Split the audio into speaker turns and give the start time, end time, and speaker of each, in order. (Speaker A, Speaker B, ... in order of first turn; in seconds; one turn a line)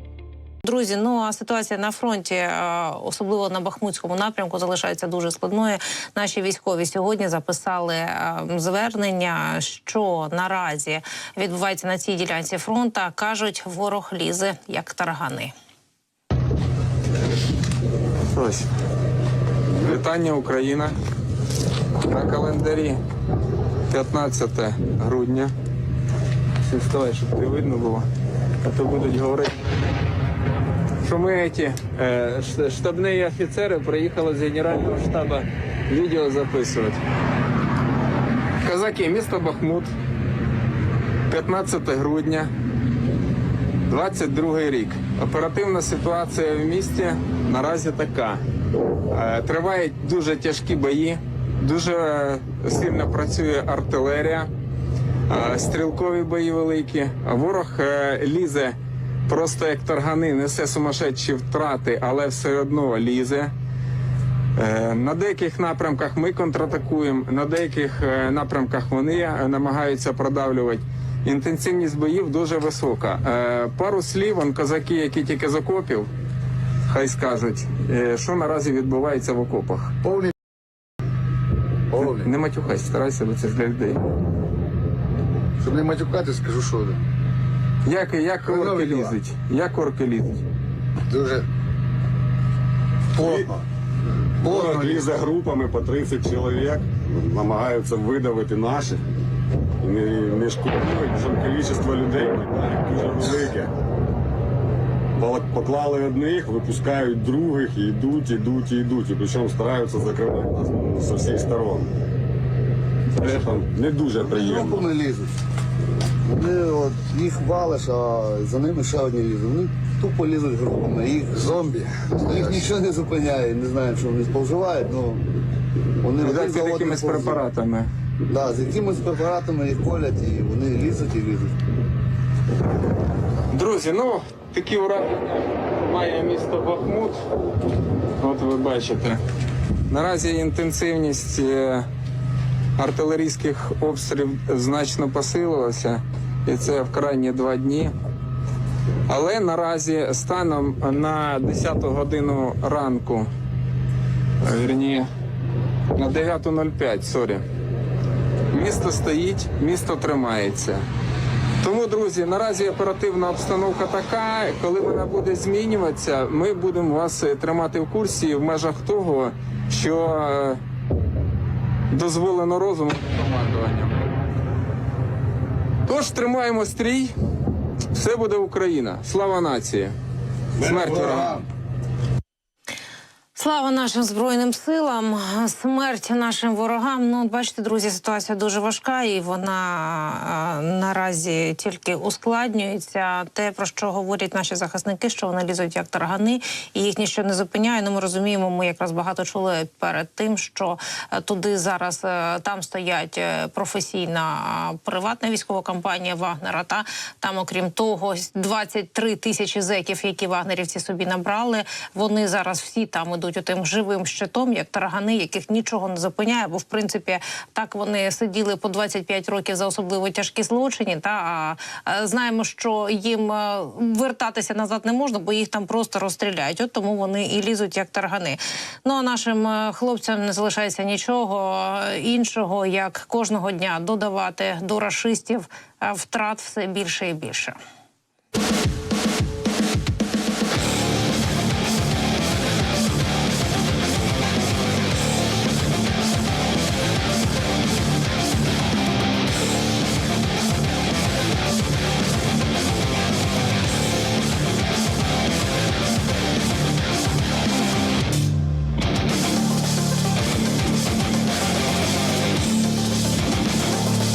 Speaker A: 0.6-15.5
Speaker B: 18.3-18.7
Speaker B: 19.8-20.9
Speaker B: 22.0-23.0
Speaker B: 23.9-25.5
Speaker B: 26.6-28.1
Speaker B: 28.6-29.6
Speaker B: 31.0-37.0
Speaker B: 38.6-39.9
Speaker B: 41.3-42.5
Speaker B: 43.9-48.4
Speaker B: 49.1-54.5
Speaker B: 55.3-58.8
Speaker B: 59.3-63.5
Speaker B: 64.5-76.1
Speaker B: 76.9-79.9
Speaker C: 81.9-82.3
Speaker B: 82.0-84.0
Speaker C: 85.6-87.0
Speaker B: 87.8-90.4
Speaker C: 88.5-89.1
Speaker C: 91.1-91.4
Speaker D: 93.2-93.6
Speaker C: 93.2-93.5
Speaker D: 94.4-99.0
Speaker C: 94.4-95.0
Speaker D: 99.8-103.7
Speaker D: 105.2-111.9
Speaker D: 113.2-114.9
Speaker C: 114.2-115.3
Speaker C: 116.2-125.2
Speaker C: 126.0-127.4
Speaker B: 126.2-127.9
Speaker C: 128.2-131.5
Speaker B: 133.5-137.2
Speaker B: 138.2-139.2
Speaker B: 139.9-141.9
Speaker B: 142.8-147.9
Speaker B: 149.1-153.3
Speaker B: 154.4-155.1
Speaker B: 155.9-157.4
Speaker B: 158.5-160.8
Speaker B: 161.6-170.6
Speaker B: 171.9-174.0
Speaker B: 175.8-177.1
Speaker B: 177.9-179.9
Speaker B: 180.6-181.4
Speaker A: 183.3-237.6